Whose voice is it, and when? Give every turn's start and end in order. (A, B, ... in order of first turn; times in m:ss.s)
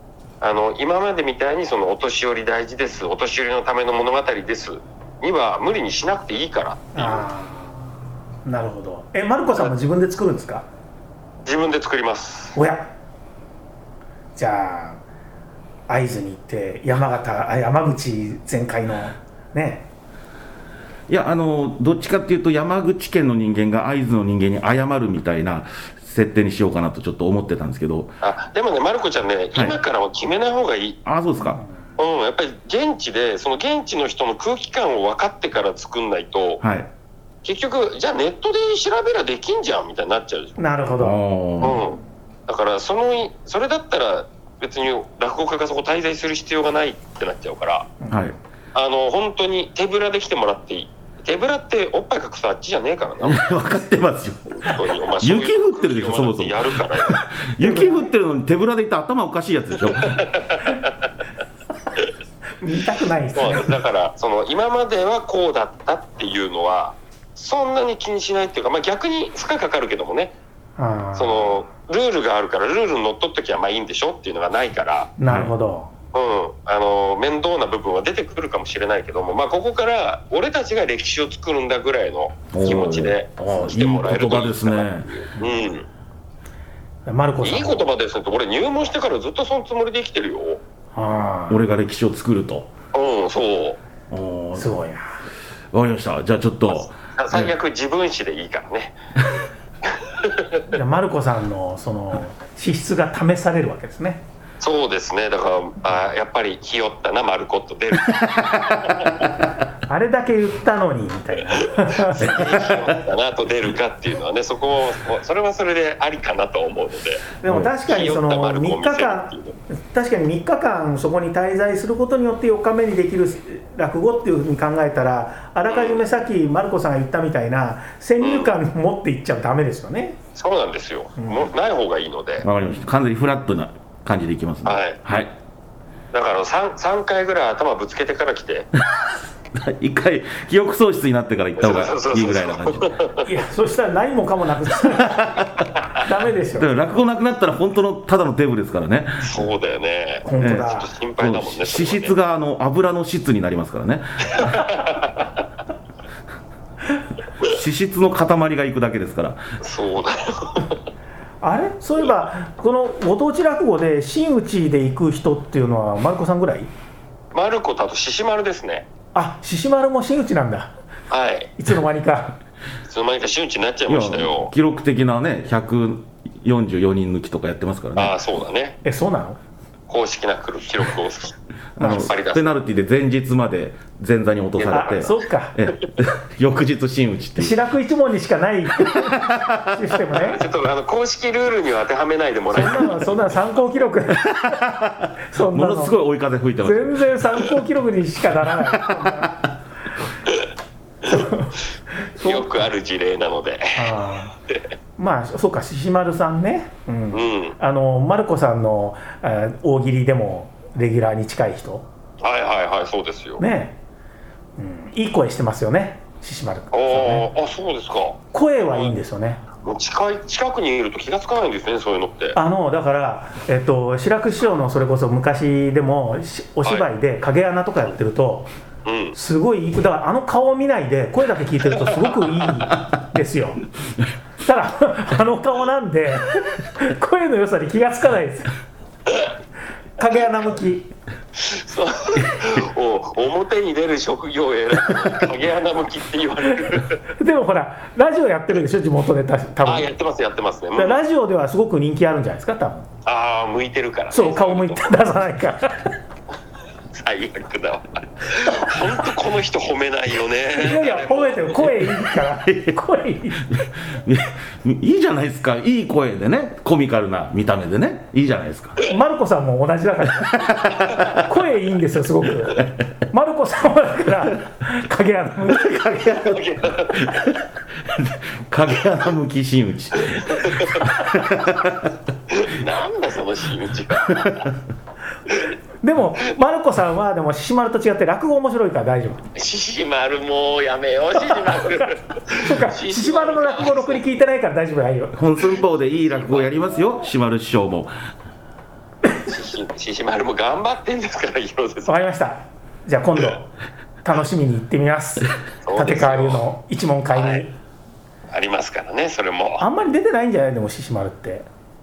0:00.4-0:07.3 A
0:07.0-0:10.7 B
0:11.4-0:12.6 A
0:12.6-0:12.9 B
0:14.4-0:15.0 B
0:15.9-0:19.9 B
0:21.1-0:28.1 C
0:28.2-0:31.0 A
0:31.0-0:31.6 C
0:32.0-0:36.6 A
0:36.6-0:36.9 C
0:37.4-0:40.7 A
0:40.6-0:41.2 B
0:41.0-0:41.8 C
0:41.6-0:47.9 A
0:48.0-0:48.3 B
0:48.8-0:53.5 A
0:53.2-1:00.3 C
0:54.6-0:57.2 A
0:57.6-0:58.1 B
1:00.0-1:01.0 A
1:02.6-1:03.8 B
1:03.4-1:10.3 A
1:10.8-1:11.6 B
1:11.2-1:15.1 A
1:15.2-1:15.9 B
1:16.1-1:25.9 A
1:22.5-1:25.1 C
1:27.1-1:27.9 B
1:27.4-1:30.6 A
1:31.0-1:31.6 B
1:31.5-1:32.7 C
1:32.9-1:33.8 A
1:34.1-1:34.7 C
1:34.6-1:35.1 B
1:35.7-1:37.5 C
1:37.2-1:39.0 A
1:39.9-1:40.7 A
1:40.7-1:44.2 B
1:44.6-1:49.3 A
1:48.2-1:49.1 C
1:49.9-1:52.4 B
1:51.6-1:57.3 A
1:52.3-1:52.9 C
1:57.4-2:10.2 B
1:57.9-1:59.6 A
2:05.7-2:06.0 A
2:08.2-2:08.6 A
2:10.4-2:12.5 A
2:11.2-2:11.5 B
2:12.4-2:15.3 C
2:14.6-2:15.0 A
2:16.1-2:18.7 A
2:18.8-2:23.0 C
2:21.6-2:23.3 A
2:23.2-2:26.8 B
2:24.9-2:25.7 C
2:26.5-2:29.4 C
2:29.2-2:32.1 A
2:30.2-2:30.9 B
2:30.4-2:34.7 C
2:34.3-2:35.3 A
2:37.4-2:39.4 C
2:39.6-2:40.8 A
2:41.4-2:46.7 B
2:47.3-2:48.9 A
2:49.1-2:50.7 B
2:51.1-2:51.5 A
2:51.6-2:52.4 B
2:52.9-2:54.5 A
2:53.9-2:58.2 C
2:58.0-2:58.8 A
2:58.8-2:59.4 B
2:59.9-3:02.6 A
3:01.8-3:07.6 C
3:01.8-3:02.1 B
3:04.6-3:05.0 A
3:04.6-3:05.6 B
3:07.4-3:10.4 B
3:08.8-3:09.9 C
3:10.2-3:13.1 A
3:12.5-3:16.0 B
3:14.2-3:17.2 C
3:16.6-3:19.5 B
3:18.6-3:19.3 C
3:21.1-3:22.6 B
3:22.2-3:24.6 A
3:23.8-3:24.3 B
3:25.0-3:31.9 B
3:27.1-3:27.6 A
3:32.2-3:33.4 A
3:33.4-3:33.8 B
3:34.6-3:37.3 B
3:36.7-3:38.9 A
3:38.3-3:39.4 B
3:39.6-3:42.4 A
3:42.4-3:48.5 B
3:48.8-3:49.2 A
3:49.1-3:53.6 B
3:54.4-3:58.5 B
4:00.0-4:00.9 B
4:01.4-4:07.0 A
4:07.2-4:09.9 B
4:09.6-4:11.0 A
4:10.8-4:12.9 B
4:13.0-4:15.0 A
4:14.1-4:15.9 B
4:16.9-4:21.7 A
4:20.5-4:23.5 B
4:22.4-4:22.8 C
4:23.5-4:28.8 C
4:28.8-4:36.3 B
4:30.2-4:31.2 C
4:35.5-4:42.0 C
4:36.2-4:37.3 A
4:40.1-4:40.9 A
4:42.3-4:44.5 A
4:44.1-4:44.5 C
4:45.3-4:45.5 A
4:45.8-4:49.2 B
4:49.4-4:54.0 A
4:51.3-4:55.2 B
4:55.1-4:57.9 C
4:56.1-4:56.5 A
4:59.3-5:02.0 A
5:01.9-5:03.5 B
5:04.0-5:07.5 B
5:05.6-5:06.4 A
5:07.1-5:07.4 A
5:08.3-5:09.6 A
5:09.6-5:11.5 B